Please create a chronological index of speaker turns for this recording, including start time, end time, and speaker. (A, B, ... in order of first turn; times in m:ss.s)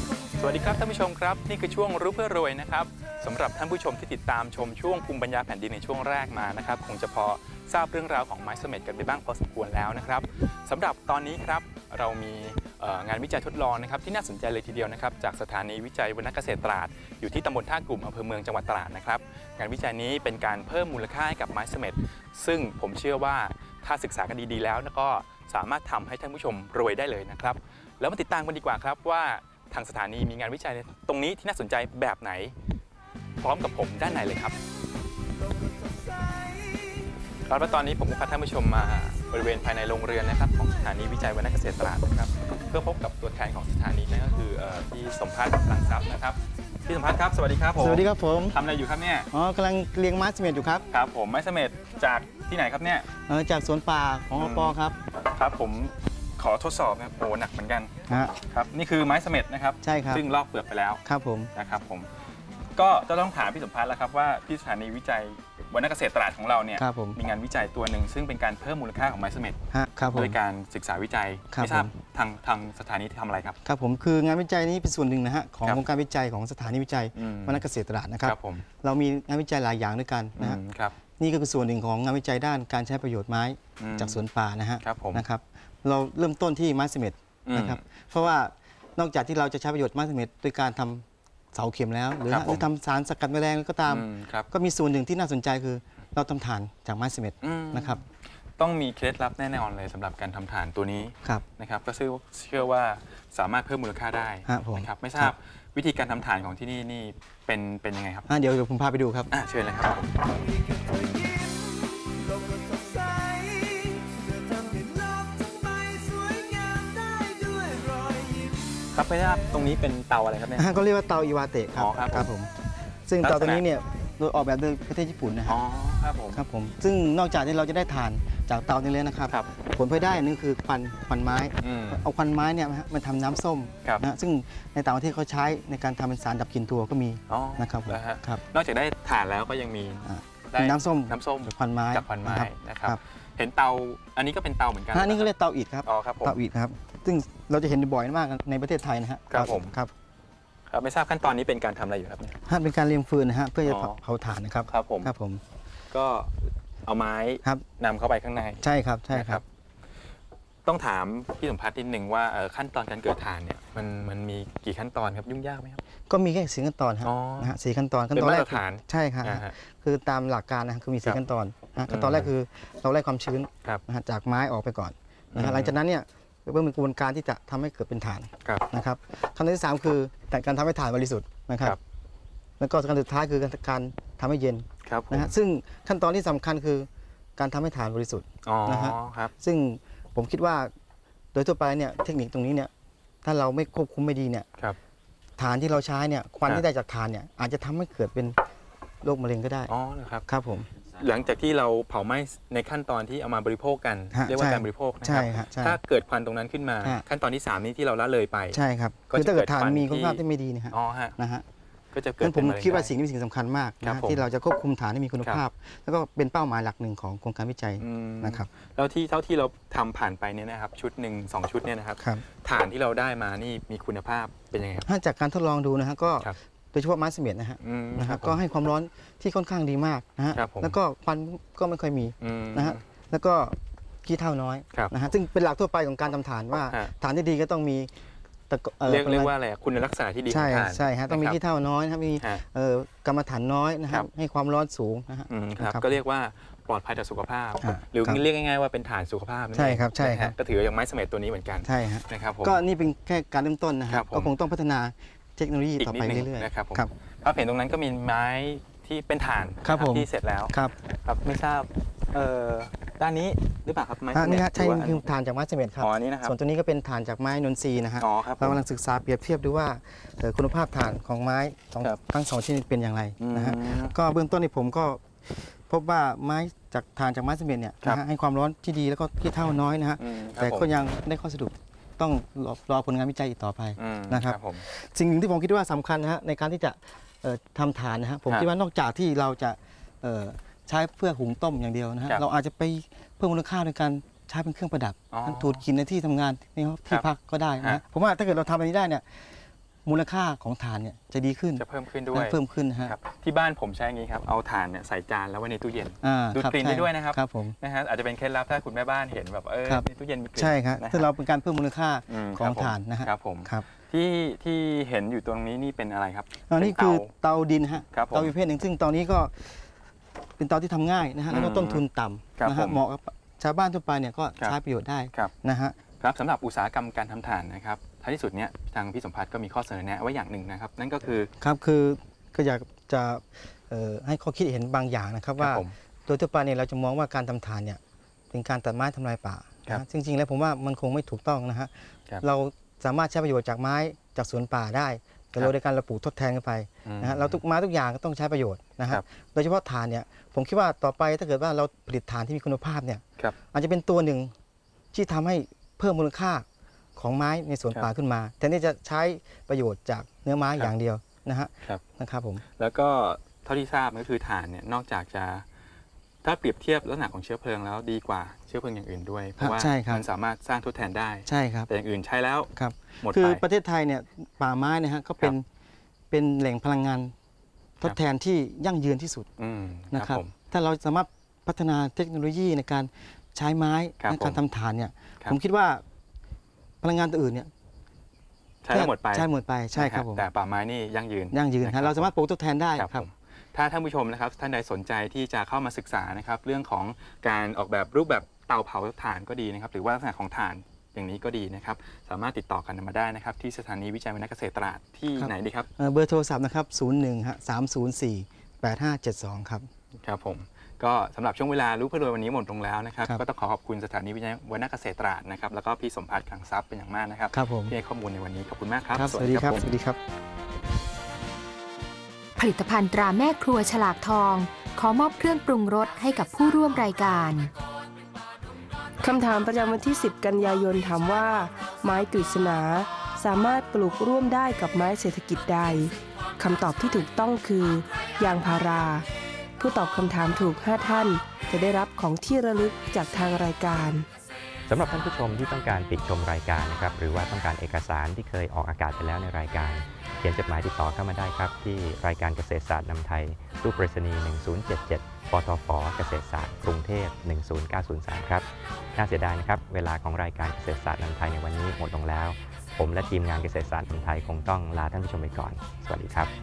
0:00.3-0:32.5 A
0:33.4-0:34.6 A
0:35.7-0:36.9 B
0:37.4-0:49.3 A
0:47.8-0:48.6 C
0:49.3-0:50.9 C
0:50.9-0:53.0 A
0:53.3-0:55.0 C
0:54.4-1:01.0 A
0:58.1-0:58.3 C
0:59.8-1:00.2 C
1:01.0-1:01.5 C
1:01.5-1:02.1 A
1:02.8-1:09.6 A
1:06.8-1:07.2 C
1:09.7-1:10.4 C
1:10.1-1:13.6 A
1:11.5-1:11.9 C
1:13.6-1:20.6 C
1:17.2-1:17.6 A
1:18.2-1:18.6 A
1:20.4-1:21.0 A
1:21.2-1:38.0 C
1:23.8-1:24.2 A
1:24.8-1:25.2 A
1:27.4-1:27.8 A
1:32.3-1:32.7 A
1:33.8-1:34.5 A
1:37.4-1:48.3 A
1:44.4-1:45.3 C
1:48.3-1:49.3 C
1:49.3-1:50.2 A
1:50.6-1:58.6 B
1:58.9-2:00.8 A
2:00.6-2:02.5 C
2:01.7-2:02.3 A
2:03.1-2:05.6 C
2:03.2-2:03.6 A
2:05.5-2:06.4 A
2:06.3-2:18.4 C
2:11.6-2:12.0 A
2:17.3-2:25.3 A
2:20.0-2:23.0 C
2:24.9-2:29.9 C
2:25.8-2:26.4 A
2:29.3-2:29.7 A
2:30.7-2:32.4 A
2:32.4-2:35.4 C
2:33.6-2:34.0 A
2:34.7-2:35.1 A
2:35.9-2:39.4 A
2:38.6-2:39.4 C
2:40.6-2:45.8 A
2:46.1-3:01.8 C
2:47.0-2:47.5 A
2:48.1-2:49.5 A
2:51.9-2:52.3 A
2:55.3-2:55.8 A
3:02.6-3:10.7 C
3:04.8-3:05.3 A
3:08.4-3:09.3 A
3:11.3-3:12.7 C
3:13.2-3:14.5 C
3:15.4-3:18.4 C
3:19.0-3:19.7 C
3:19.7-3:20.2 A
3:20.3-3:20.7 C
3:20.9-3:31.2 A
3:24.1-3:25.8 C
3:28.5-3:31.4 C
3:31.9-3:32.9 A
3:32.2-3:38.5 C
3:33.8-3:34.2 A
3:37.8-3:44.9 A
3:42.0-3:42.2 C
3:44.8-3:57.9 C
3:47.6-3:48.4 A
3:50.3-3:50.8 A
3:52.2-3:52.8 A
3:56.7-3:56.9 A
3:58.5-3:59.3 C
3:58.8-4:01.4 A
4:00.3-4:05.9 C
4:05.3-4:12.6 A
4:07.6-4:08.2 C
4:09.5-4:10.3 C
4:11.6-4:16.9 C
4:13.9-4:14.3 A
4:15.8-4:25.0 A
4:19.6-4:20.7 C
4:24.1-4:59.3 C
4:25.8-4:26.3 A
4:28.0-4:28.6 A
4:33.2-4:33.9 A
4:40.0-4:40.7 A
4:43.8-4:44.6 A
4:55.1-4:55.6 A
4:59.8-5:02.9 C
5:01.6-5:11.1 A
5:06.0-5:07.6 C
5:09.6-5:13.6 C
5:12.1-5:17.1 A
5:16.5-5:19.6 C
5:17.9-5:18.3 A
5:20.4-5:25.8 C
5:21.3-5:21.8 A
5:22.4-5:22.8 A
5:26.0-5:31.3 A
5:31.4-5:37.8 C
5:35.4-5:35.7 A
5:38.3-5:54.3 C
5:46.8-5:47.4 A
5:54.9-6:02.4 C
6:02.6-6:05.4 A
6:06.2-6:13.4 A
6:09.4-6:10.0 C
6:11.3-6:11.7 C
6:12.6-6:15.4 C
6:16.1-6:17.1 C
6:17.8-6:19.3 C
6:19.4-6:20.3 A
6:19.9-6:25.8 C
6:24.0-6:24.4 A
6:26.8-6:27.5 C
6:28.6-6:32.1 A
6:28.7-6:30.3 C
6:31.3-6:33.0 C
6:32.8-6:45.7 A
6:45.2-6:49.7 C
6:50.0-6:59.6 A
6:57.3-6:57.7 C
6:58.9-7:00.0 C
7:02.4-7:07.5 D
7:09.0-7:19.0 E
7:19.6-7:24.1 E
7:24.7-7:46.3 F